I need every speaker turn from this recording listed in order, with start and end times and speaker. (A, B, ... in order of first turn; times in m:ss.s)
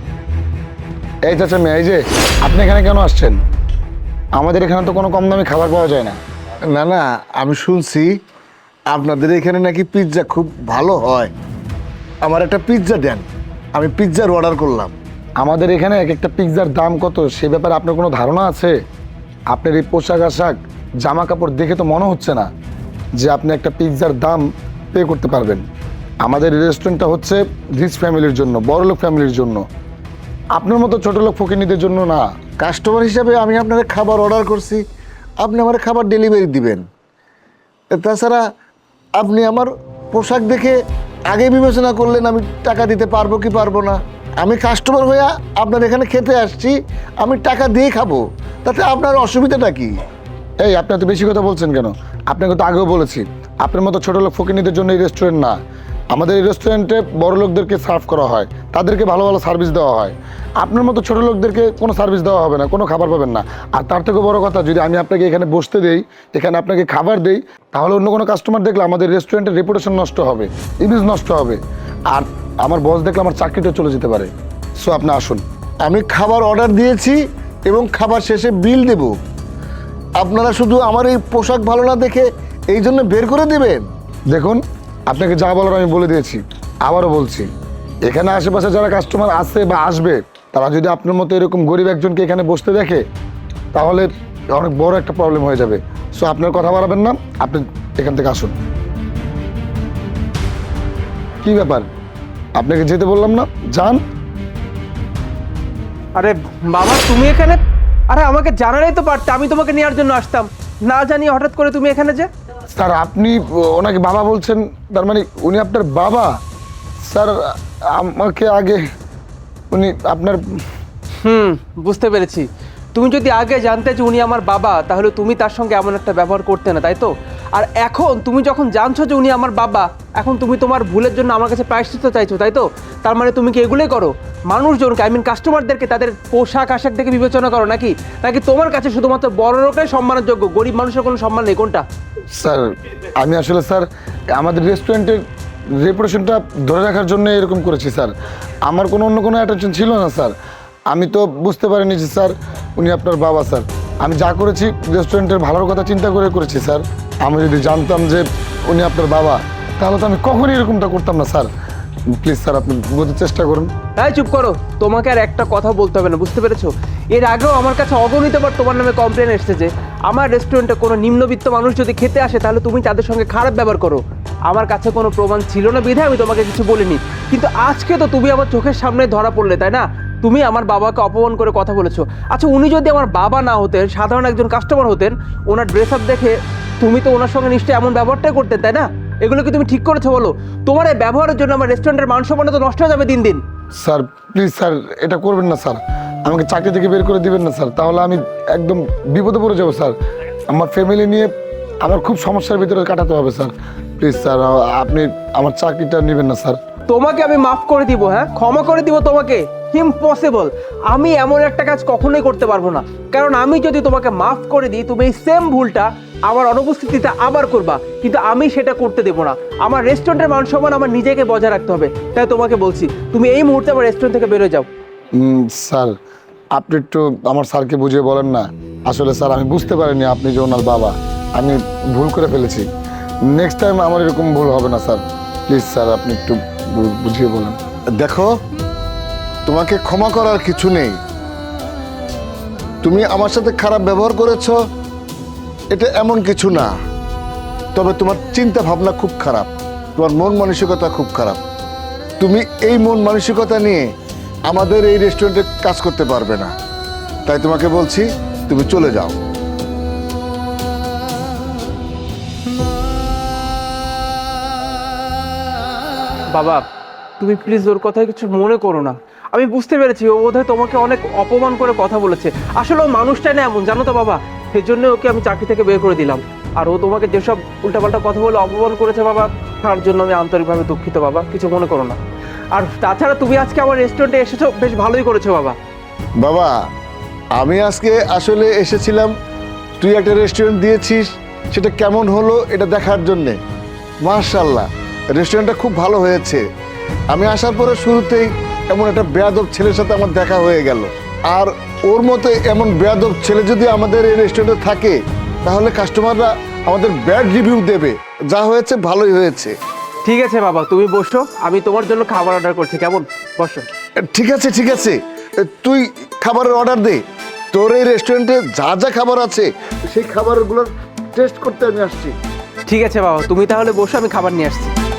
0:01.3-0:03.4 A
0:04.4-0:06.2 A
0:06.7-0:08.1 B
0:08.9-0:11.3 B
0:12.2-0:14.9 B
0:15.4-0:18.8 A
0:19.5-0:22.5 A
0:23.2-0:25.6 A
0:26.2-0:29.6 A
0:30.6-0:32.2 A
0:32.6-0:34.8 B
0:35.4-0:36.8 B
0:37.9-0:38.4 B
0:39.2-0:49.9 B
0:50.6-0:55.6 A
0:56.1-1:15.4 A
1:15.8-1:19.1 B
1:20.2-1:23.9 B
1:24.3-1:27.5 A
1:28.1-1:33.0 A
1:33.7-1:38.5 A
1:41.4-1:41.9 A
1:42.6-1:44.0 A
1:46.2-1:52.3 C
1:52.7-1:56.3 A
1:57.1-1:58.8 A
1:59.7-2:00.4 A
2:01.2-2:21.8 C
2:22.4-2:25.2 A
2:25.8-2:28.1 A
2:28.6-2:30.3 A
2:30.9-2:41.5 A
2:42.2-2:43.7 A
2:44.0-3:13.4 C
3:13.8-3:19.9 A
3:20.5-3:21.3 A
3:21.8-3:26.6 A
3:26.9-3:44.7 C
3:45.1-3:45.9 A
3:46.5-3:52.7 A
3:53.3-3:57.6 A
3:58.0-3:58.3 B
3:59.4-4:01.0 B
4:02.8-4:04.6 B
4:05.7-4:06.7 B
4:07.7-4:11.4 B
4:12.2-4:13.9 B
4:14.5-4:16.5 B
4:17.2-4:19.2 B
4:26.3-4:26.6 C
4:27.2-4:42.0 C
4:42.5-4:45.6 C
4:46.2-4:46.5 B
4:47.4-4:49.1 B
4:49.8-4:53.4 B
4:54.0-4:56.4 B
4:57.1-5:09.6 B
5:10.0-5:13.7 C
5:14.1-5:17.0 B
5:17.5-5:22.1 B
5:22.7-5:24.7 C